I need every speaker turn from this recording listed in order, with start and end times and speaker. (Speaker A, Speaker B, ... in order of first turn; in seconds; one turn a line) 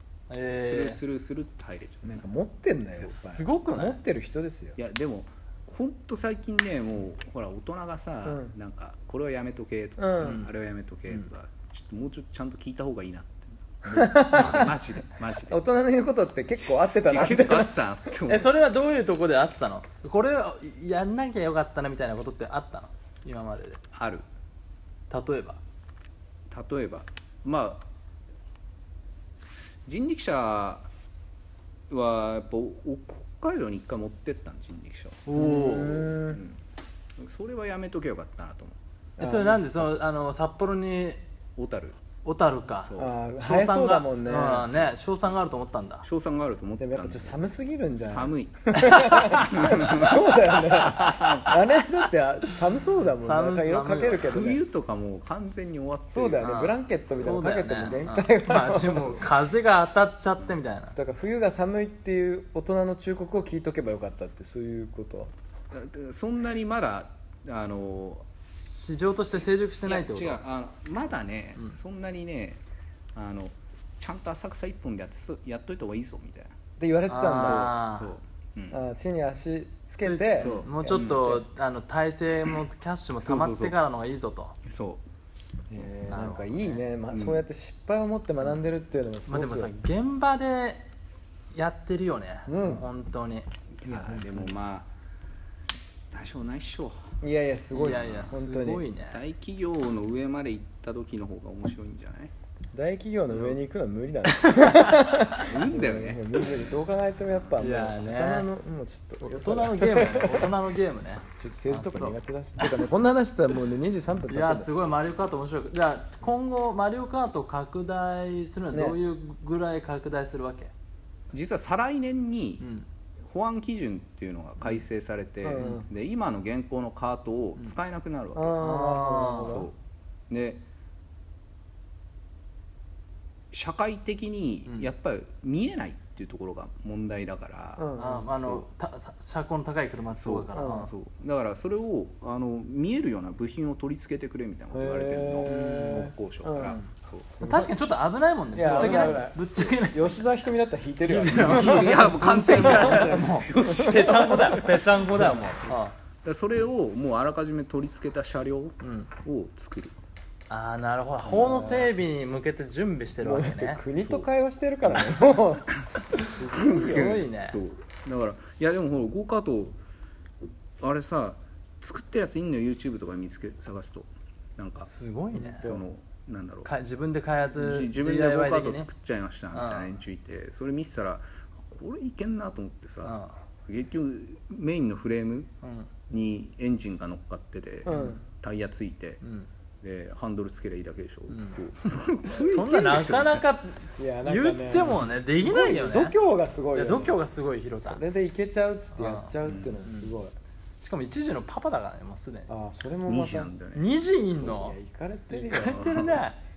Speaker A: 0.3-1.0
Speaker B: 0.6-2.3
Speaker C: 2.0-4.8
Speaker A: 3.0-4.0
Speaker B: 4.8-15.6
Speaker C: 8.2-8.5
Speaker C: 10.0-10.4
Speaker A: 10.2-10.5
Speaker C: 13.9-14.8
Speaker C: 15.5-18.1
Speaker B: 16.6-18.5
Speaker A: 18.3-23.8
Speaker B: 23.9-24.2
Speaker A: 25.1-25.6
Speaker B: 26.5-27.9
Speaker B: 29.8-30.9
Speaker B: 31.9-35.3
Speaker A: 35.3-36.1
Speaker C: 35.3-36.4
Speaker B: 36.0-36.6
Speaker B: 37.2-38.8
Speaker C: 39.2-39.9
Speaker A: 39.2-41.2
Speaker B: 41.5-42.0
Speaker A: 42.2-46.0
Speaker B: 42.8-43.1
Speaker C: 43.0-44.7
Speaker B: 46.0-47.4
Speaker C: 46.8-54.6
Speaker B: 48.0-51.9
Speaker A: 48.8-49.4
Speaker A: 53.2-54.3
Speaker B: 54.1-56.5
Speaker C: 56.1-59.3
Speaker A: 56.4-61.0
Speaker C: 60.9-65.3
Speaker B: 65.7-68.3
Speaker A: 68.6-70.4
Speaker B: 69.3-72.6
Speaker B: 73.1-76.5
Speaker C: 76.8-77.8
Speaker A: 77.1-78.1
Speaker B: 77.3-78.8
Speaker C: 78.7-81.0
Speaker A: 80.0-84.5
Speaker B: 80.4-81.4
Speaker B: 83.2-83.7
Speaker B: 84.6-85.0
Speaker C: 85.7-89.7
Speaker A: 86.1-86.8
Speaker B: 87.1-87.4
Speaker A: 89.3-90.8
Speaker A: 91.5-94.4
Speaker C: 92.5-92.8
Speaker B: 93.8-94.9
Speaker B: 96.1-97.1
Speaker C: 97.2-98.8
Speaker A: 97.7-99.2
Speaker B: 97.8-98.3
Speaker B: 99.1-102.3
Speaker C: 102.7-110.5
Speaker A: 104.3-105.4
Speaker B: 105.3-106.4
Speaker A: 107.6-108.4
Speaker A: 109.3-112.8
Speaker C: 111.3-114.7
Speaker A: 114.3-120.7
Speaker C: 118.7-119.0
Speaker B: 121.3-122.7
Speaker B: 123.2-128.6
Speaker C: 125.4-125.8
Speaker C: 128.3-129.7
Speaker A: 128.6-129.7
Speaker B: 129.4-129.7
Speaker B: 130.3-130.6
Speaker B: 133.5-138.7
Speaker C: 137.8-138.3
Speaker A: 137.9-140.9
Speaker B: 140.2-147.3
Speaker C: 140.5-140.9
Speaker C: 144.7-146.8
Speaker A: 145.5-146.0
Speaker A: 147.2-150.2
Speaker C: 147.4-147.8
Speaker C: 148.5-155.6
Speaker B: 148.6-149.2
Speaker A: 151.1-155.9
Speaker B: 151.3-154.4
Speaker B: 156.2-160.0
Speaker A: 158.8-159.1
Speaker A: 160.5-163.8
Speaker C: 161.2-161.9
Speaker C: 163.2-167.2
Speaker B: 164.8-165.2
Speaker A: 166.1-167.6
Speaker B: 166.5-169.8
Speaker B: 170.8-174.9
Speaker A: 174.8-175.7
Speaker C: 175.4-175.8
Speaker B: 175.5-176.7
Speaker A: 176.6-178.9
Speaker B: 177.5-185.5
Speaker A: 179.5-179.9
Speaker A: 183.0-183.3
Speaker A: 185.6-185.9
Speaker B: 186.1-189.2
Speaker C: 187.8-188.2
Speaker A: 187.9-188.2
Speaker A: 189.2-189.5
Speaker B: 189.8-193.5
Speaker A: 191.3-191.6
Speaker A: 192.4-196.2
Speaker C: 194.0-197.2
Speaker A: 196.7-198.0
Speaker C: 197.8-200.3
Speaker A: 198.9-200.1
Speaker B: 199.4-199.8
Speaker A: 200.8-202.5
Speaker C: 202.5-203.5
Speaker B: 203.0-203.9
Speaker A: 203.7-204.8
Speaker C: 204.3-206.2
Speaker A: 205.3-206.4
Speaker B: 205.6-206.2